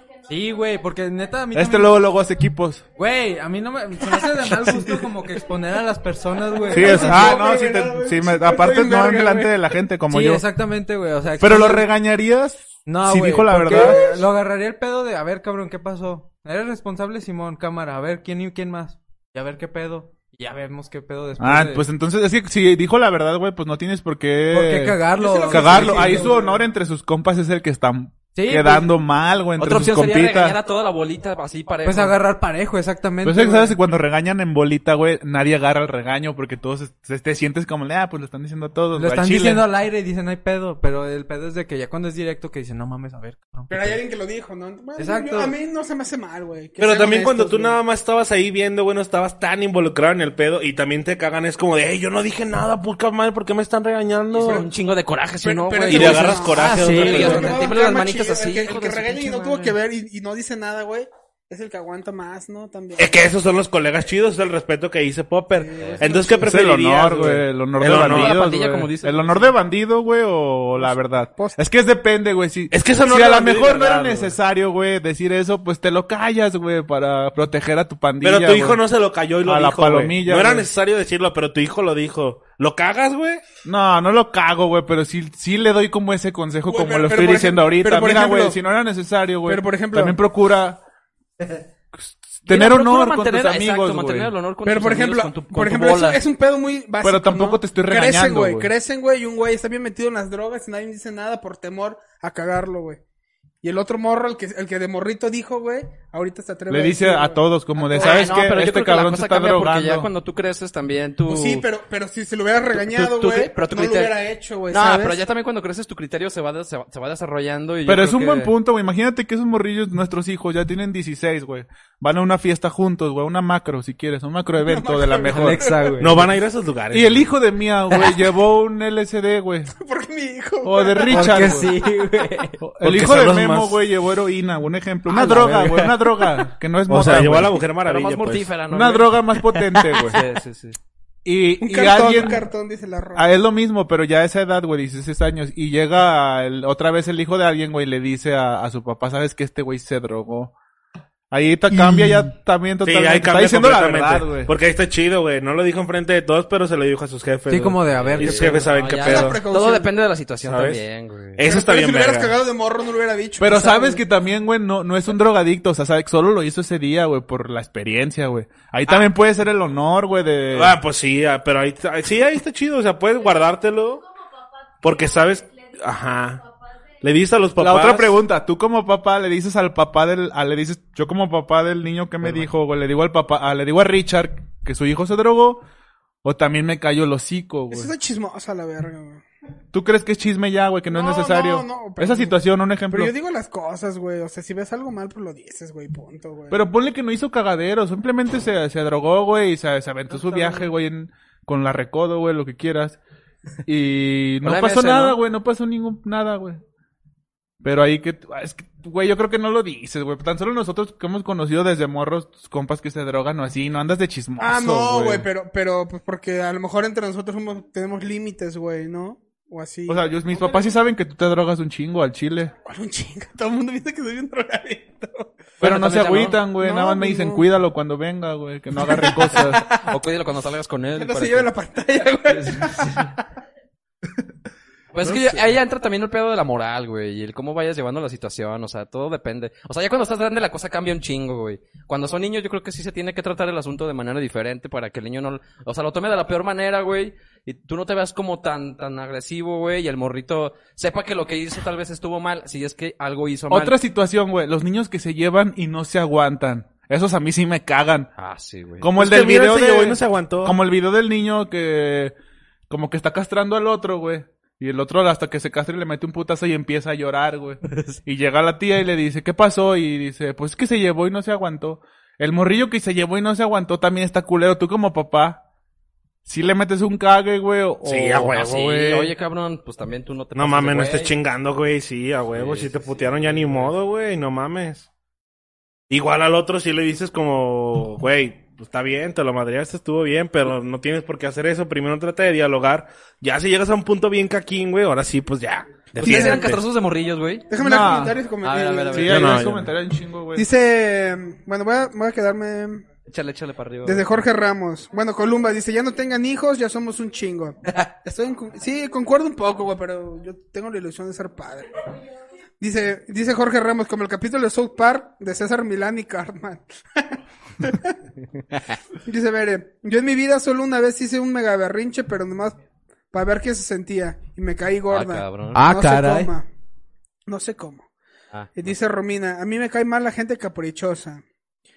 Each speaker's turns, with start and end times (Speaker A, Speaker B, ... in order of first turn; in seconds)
Speaker A: 0.3-2.1, 3.0-7.4, 10.1-11.9, 12.9-21.9, 24.5-26.3, 28.4-28.9, 31.9-33.8, 38.9-44.0, 45.0-45.5, 56.6-57.6, 125.3-126.3, 131.1-132.6, 135.1-136.4, 151.8-152.2, 157.5-158.7, 325.5-326.3
Speaker B: 1.5-2.8, 4.5-4.8, 6.7-10.4, 11.4-14.0, 21.4-30.6, 33.2-39.6, 66.4-78.8, 79.4-80.7, 83.7-90.8, 92.0-94.3, 97.0-98.7, 106.7-110.1, 117.9-125.8, 126.9-129.7, 130.6-131.7, 132.6-137.6, 138.7-140.2, 141.2-142.4, 143.2-150.5, 151.3-154.5, 163.4-170.8, 177.6-185.6, 186.2-187.9, 189.7-193.1, 196.5-203.0, 203.7-206.6, 207.6-215.3, 219.9-222.5, 225.6-229.6, 253.5-258.1, 258.8-262.1, 262.7-275.4, 276.3-278.4, 297.6-298.2, 298.9-300.5
Speaker C: 6.7-9.8, 13.7-14.3, 25.2-26.6, 43.7-47.8, 54.4-54.7, 55.4-63.3, 65.5-66.6, 70.8-71.6, 86.7-88.6, 89.5-90.2, 94.7-103.0, 103.6-108.4, 111.3-115.2, 124.6-126.0, 129.8-131.7, 141.6-143.3, 159.0-159.9, 161.4-164.0, 187.7-189.2, 190.9-192.4, 192.9-196.6, 200.1-200.7, 214.4-220.7, 222.7-225.3, 226.6-227.5, 228.8-229.6, 230.9-233.2, 296.0-296.6, 297.5-299.4, 300.4-302.9, 303.9-311.7, 312.6-317.9, 319.1-322.6, 323.1-326.5, 327.3-327.9, 328.6-331.2
Speaker D: 29.6-32.2, 54.3-59.8, 67.8-69.5, 92.5-96.2, 107.9-111.7, 112.7-114.2, 114.7-118.5, 137.8-140.8, 157.9-161.4, 204.4-205.2, 225.6-226.4, 229.3-231.5, 232.3-233.1, 234.9-253.8, 258.2-258.9, 278.3-281.1, 282.4-283.7, 296.0-297.5, 298.4-299.6, 303.1-304.2, 324.9-325.6, 328.3-328.7
Speaker E: 46.8-54.6, 55.9-57.6, 63.0-68.4, 72.7-74.3, 78.2-83.4, 126.0-127.3, 132.8-133.8, 136.9-138.5, 152.8-159.4, 160.4-160.8, 161.4-162.3, 170.5-174.1, 174.8-176.4, 177.0-178.2, 259.0-260.6, 277.8-279.1, 280.4-284.9, 285.9-296.6, 299.1-299.6